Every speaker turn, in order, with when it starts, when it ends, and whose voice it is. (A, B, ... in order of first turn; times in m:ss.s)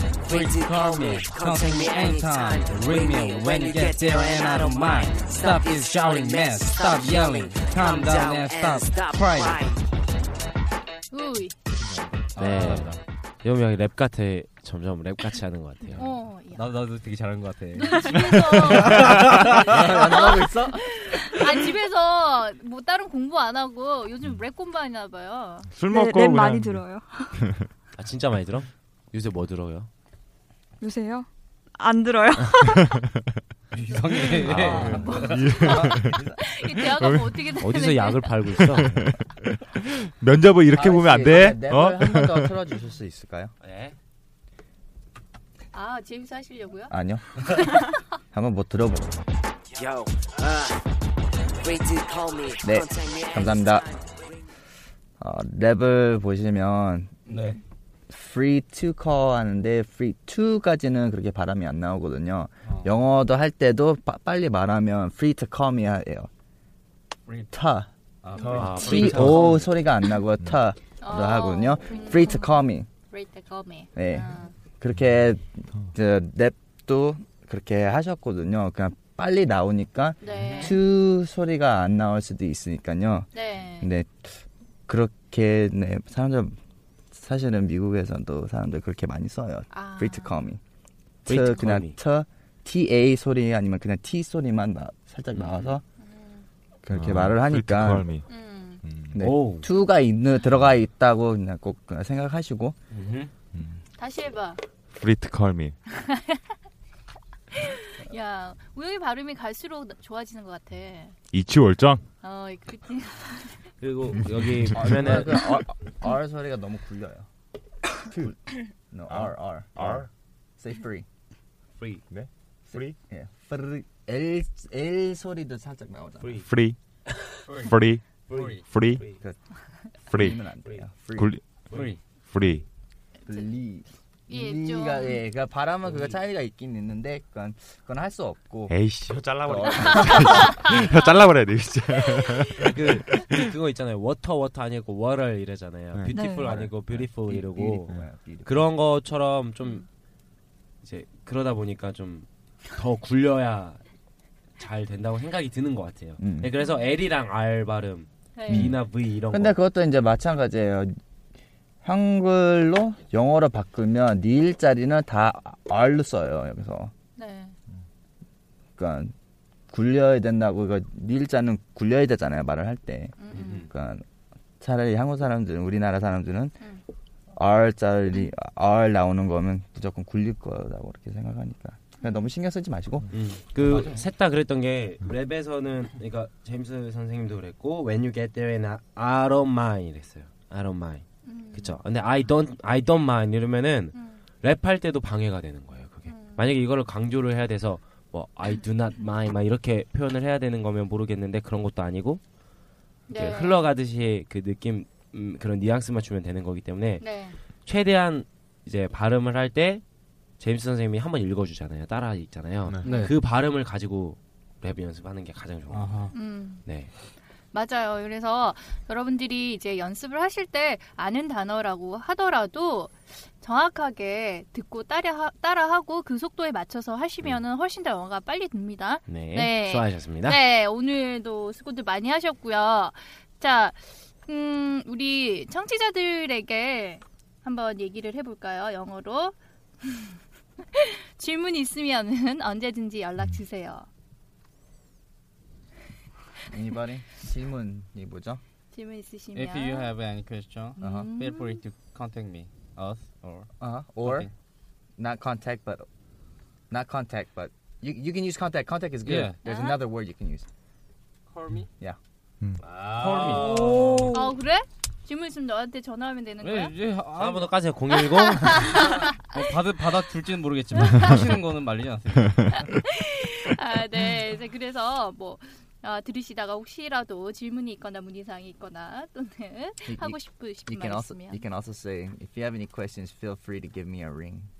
0:00.2-0:09.8 A
0:00.3-0:09.7 B
0:11.1-0:11.6 C
0:11.7-0:12.7 D
0:12.3-0:13.0 B
0:12.4-0:16.1 E
0:16.0-0:16.8 C
0:16.0-0:19.6 B
0:17.8-0:25.7 C
0:19.4-0:20.9 D
0:25.8-0:27.6 F
0:25.9-0:27.4 G
0:28.0-0:29.9 E
0:30.8-0:33.0 G
0:33.7-0:36.3 B
0:34.4-0:35.1 E
0:34.5-0:36.2 F
0:35.0-0:38.8 C
0:37.0-0:37.4 F
0:37.6-0:39.0 E
0:38.7-0:39.1 F
0:39.8-0:42.5 F
0:40.7-0:43.5 D
0:43.6-0:44.0 E
0:45.7-0:46.9 C
0:46.9-0:47.8 D
0:48.3-0:49.2 D
0:49.7-0:50.8 A
0:51.6-0:54.4 A
0:52.6-0:53.9 D
0:55.2-0:57.1 D
0:57.3-0:57.6 B
0:58.1-1:06.3 D
1:02.6-1:03.0 B
1:07.5-1:07.9 D
1:08.2-1:09.7 B
1:08.4-1:09.7 E
1:08.5-1:09.3 F
1:08.6-1:12.9 D
1:11.0-1:12.5 C
1:13.1-1:14.5 C
1:14.0-1:26.6 D
1:20.2-1:20.8 C
1:23.3-1:23.9 C
1:27.1-1:30.6 D
1:29.7-1:30.4 C
1:31.3-1:35.8 D
1:31.3-1:32.0 E
1:35.3-1:35.8 E
1:36.0-1:36.5 C
1:36.8-1:38.1 D
1:36.9-1:38.2 F
1:38.3-1:38.8 C
1:38.8-1:39.2 F
1:39.1-1:42.8 D
1:39.2-1:39.7 E
1:42.9-1:43.3 B
1:44.0-1:44.6 C
1:45.0-1:45.8 F
1:46.0-1:46.4 C
1:47.5-1:51.2 C
1:51.3-1:52.0 F
1:52.2-1:53.6 C
1:53.8-1:55.6 E
1:54.8-1:57.3 D
1:58.0-2:01.1 D
1:59.8-2:00.1 E
2:01.8-2:02.0 E
2:02.7-2:06.4 D
2:06.2-2:06.5 E
2:06.4-2:06.8 F
2:07.6-2:08.1 F
2:08.3-2:09.2 E
2:08.3-2:08.7 B
2:08.6-2:09.0 F
2:10.1-2:10.4 F
2:10.1-2:11.3 D
2:11.2-2:11.4 F
2:11.7-2:12.0 B
2:12.3-2:12.6 F
2:13.3-2:18.8 D
2:14.3-2:15.2 C
2:18.7-2:23.3 F
2:19.4-2:20.6 D
2:19.6-2:20.1 E
2:20.5-2:20.8 C
2:22.6-2:29.8 E
2:26.1-2:26.5 G
2:26.3-2:28.7 D
2:30.8-2:33.8 E
2:34.6-2:39.6 E
2:36.2-2:36.6 D
2:38.4-2:38.7 C
2:38.5-2:41.0 D
2:41.8-2:46.9 D
2:47.2-2:47.6 C
2:48.8-2:49.1 D
2:49.7-2:54.0 D
2:53.2-2:53.7 C
2:53.3-2:53.7 E
2:54.6-2:56.6 D
2:57.3-3:03.1 D
3:03.1-3:22.2 E
3:03.6-3:04.0 B
3:11.2-3:11.8 C
3:13.9-3:14.2 C
3:16.1-3:16.5 C
3:23.1-3:23.6 C
3:23.1-3:29.8 E
3:27.0-3:27.4 C
3:30.4-3:36.0 E
3:32.8-3:33.2 B
3:35.7-3:36.2 B
3:36.1-3:36.6 C
3:36.6-3:36.9 E
3:37.5-4:00.2 C
3:49.1-3:50.4 E
4:00.7-4:03.9 C
4:06.5-4:08.4 D
4:08.7-4:09.9 C
4:09.3-4:13.5 B
4:10.8-4:11.6 C
4:10.8-4:11.1 D
4:13.6-4:14.3 D
4:14.0-4:14.3 B
4:15.0-4:15.9 D
4:16.7-4:20.5 D
4:19.0-4:19.4 B
4:19.4-4:19.8 G
4:21.3-4:21.7 B
4:22.6-4:24.0 E
4:22.9-4:24.2 B
4:23.4-4:24.3 G
4:24.1-4:26.8 C
4:26.4-4:27.7 B
4:27.2-4:28.9 E
4:28.2-4:29.1 C
4:28.7-4:32.8 B
4:32.6-4:41.4 C
4:39.9-4:44.5 D